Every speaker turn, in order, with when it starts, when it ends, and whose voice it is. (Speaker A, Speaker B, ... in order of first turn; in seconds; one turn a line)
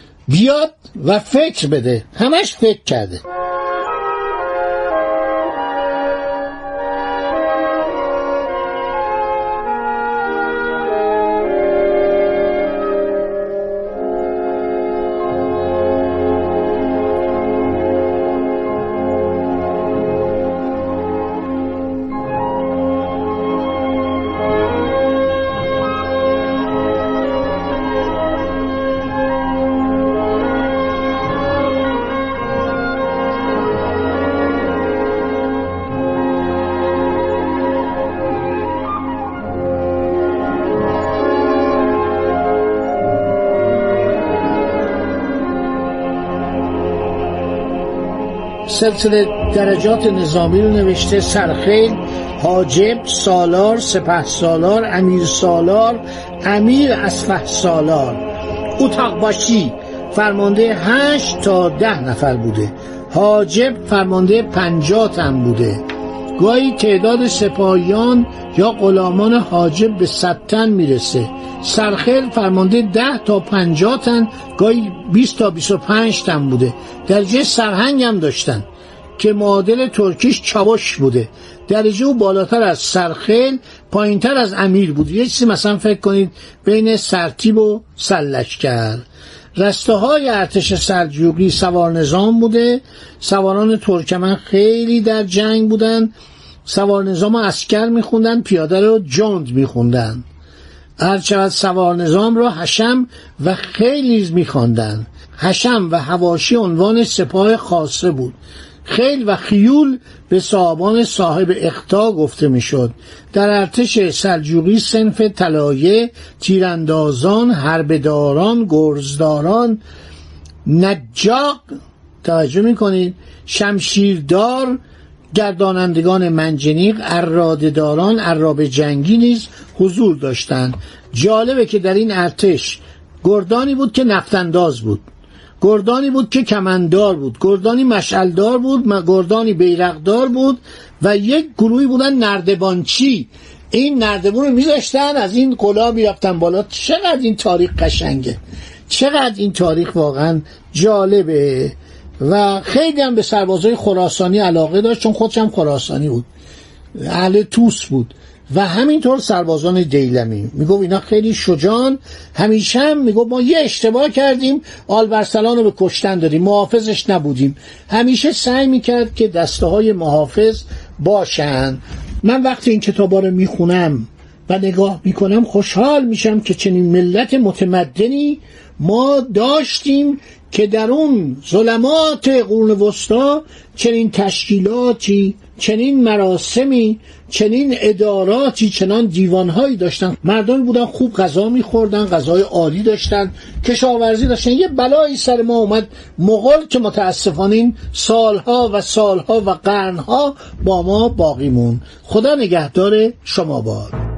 Speaker A: 0.3-3.2
Speaker A: 48.7-58.2
Speaker A: 58.8-65.9
Speaker A: 66.4-96.1
Speaker A: 96.7-100.2
Speaker A: 101.0-119.8
Speaker A: 120.7-121.7
Speaker A: 122.2-124.8
Speaker A: 125.3-135.1
Speaker A: 135.6-156.3
Speaker A: 157.0-204.0